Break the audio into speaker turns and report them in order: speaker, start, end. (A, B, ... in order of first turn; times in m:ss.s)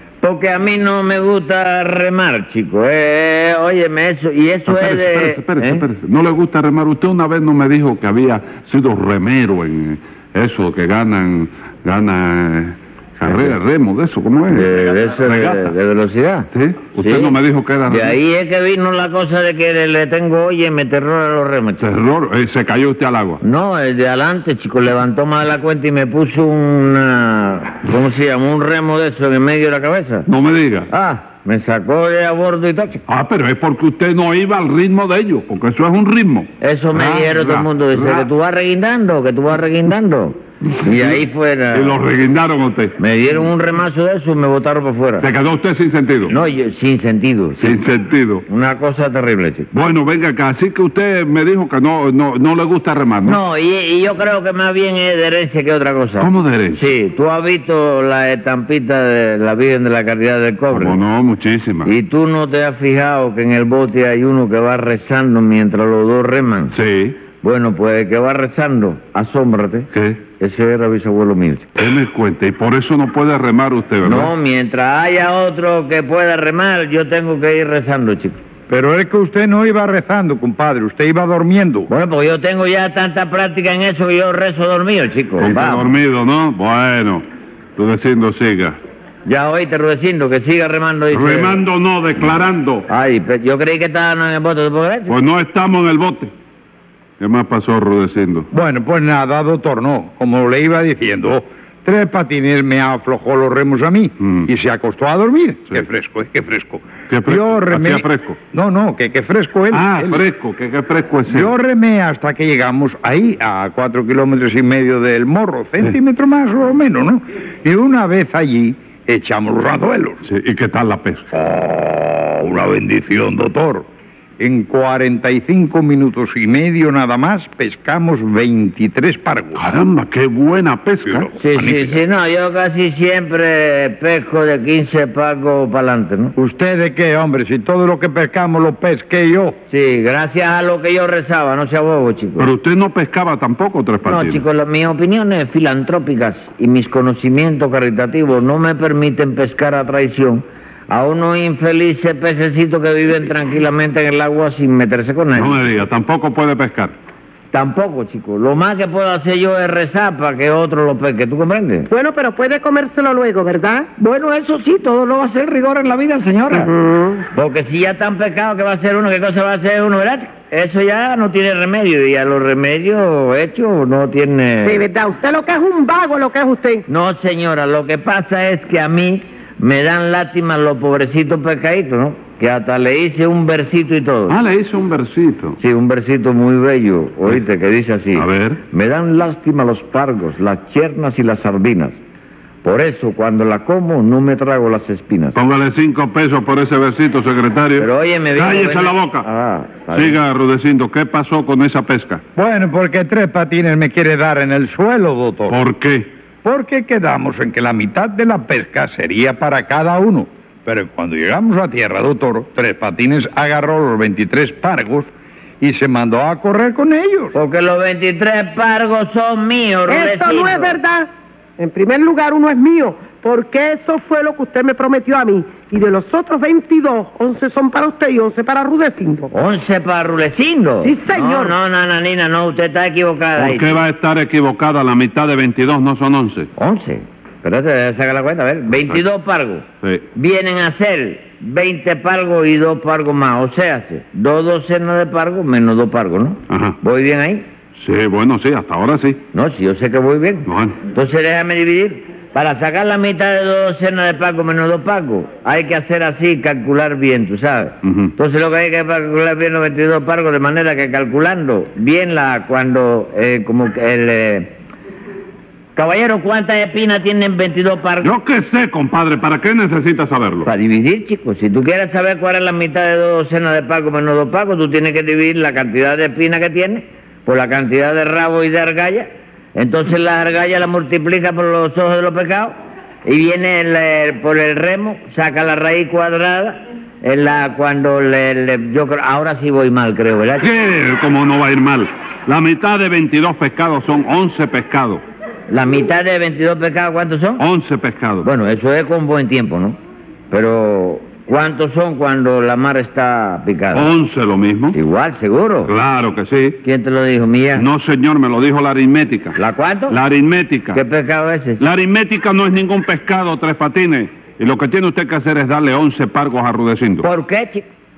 0:00.2-0:05.8 A
0:04.7-0:15.7 B
0:14.5-0:17.4 A
0:16.5-0:18.2 B
0:17.9-0:21.8 A
0:21.8-0:23.4 B
0:23.4-0:30.3 A
0:30.3-0:30.9 B
0:30.9-0:33.0 A
0:33.1-0:38.3 B
0:36.6-0:42.0 A
0:40.8-0:41.2 B
0:41.7-0:43.0 B
0:43.0-0:45.3 A
0:45.2-0:46.3 B
0:46.3-0:47.8 A
0:47.6-0:48.4 B
0:48.5-0:49.7 A
0:49.7-0:53.4 B
0:53.2-1:01.0 A
0:56.2-0:56.9 B
1:00.7-1:01.9 B
1:01.8-1:06.7 A
1:06.7-1:07.2 B
1:07.4-1:11.7 A
1:09.9-1:10.2 B
1:11.8-1:14.3 B
1:14.0-1:18.4 A
1:18.7-1:21.9 C
1:21.9-1:25.9 A
1:25.4-1:27.2 B
1:27.8-1:28.8 B
1:29.2-1:31.6 A
1:31.1-1:32.8 B
1:32.9-1:35.1 A
1:35.1-1:36.3 B
1:37.2-1:38.5 B
1:38.5-1:50.2 C
1:47.1-1:48.4 B
1:49.7-1:51.5 B
1:51.3-2:00.2 C
2:00.2-2:01.3 B
2:01.3-2:03.8 C
2:04.4-2:09.6 C
2:09.5-2:11.3 B
2:11.0-2:12.0 C
2:11.4-2:16.3 A
2:16.4-2:19.6 C
2:19.7-2:22.5 A
2:22.4-2:24.4 B
2:24.0-2:35.7 A
2:35.3-2:36.9 B
2:37.5-2:41.9 A
2:41.9-2:43.9 D
2:44.0-2:54.8 A
2:54.6-2:56.8 D
2:56.9-3:04.4 A
3:04.3-3:05.6 B
3:05.6-3:12.0 A
3:08.1-3:08.6 B
3:12.6-3:15.4 A
3:15.3-3:19.2 B
3:17.8-3:20.2 A
3:19.9-3:22.2 B
3:22.4-3:25.6 C
3:25.5-3:26.1 B
3:26.4-3:35.1 C
3:35.6-3:37.4 C
3:37.3-3:40.8 A
3:39.9-3:49.3 D
3:49.3-3:53.8 A
3:50.8-3:51.5 D
3:53.4-3:56.5 B
3:56.6-4:07.4 A
3:58.7-3:59.0 B
4:06.5-4:06.8 B
4:07.8-4:09.2 B
4:09.3-4:24.5 A
4:10.5-4:10.8 B
4:17.8-4:18.1 B
4:25.8-4:28.1 A
4:28.0-4:30.5 B
4:30.4-4:42.5 A
4:43.0-4:50.5 A
4:50.4-4:55.0 B
4:55.5-4:57.4 A
4:57.4-4:58.3 B
4:58.2-4:59.8 A
5:00.3-5:03.9 A
5:03.7-5:04.8 B
5:04.7-5:05.7 A
5:05.7-5:06.6 B
5:06.6-5:07.7 A
5:07.6-5:09.4 B
5:09.4-5:10.0 A
5:09.9-5:10.8 B
5:10.7-5:11.6 A
5:11.6-5:17.0 B
5:17.0-5:17.6 A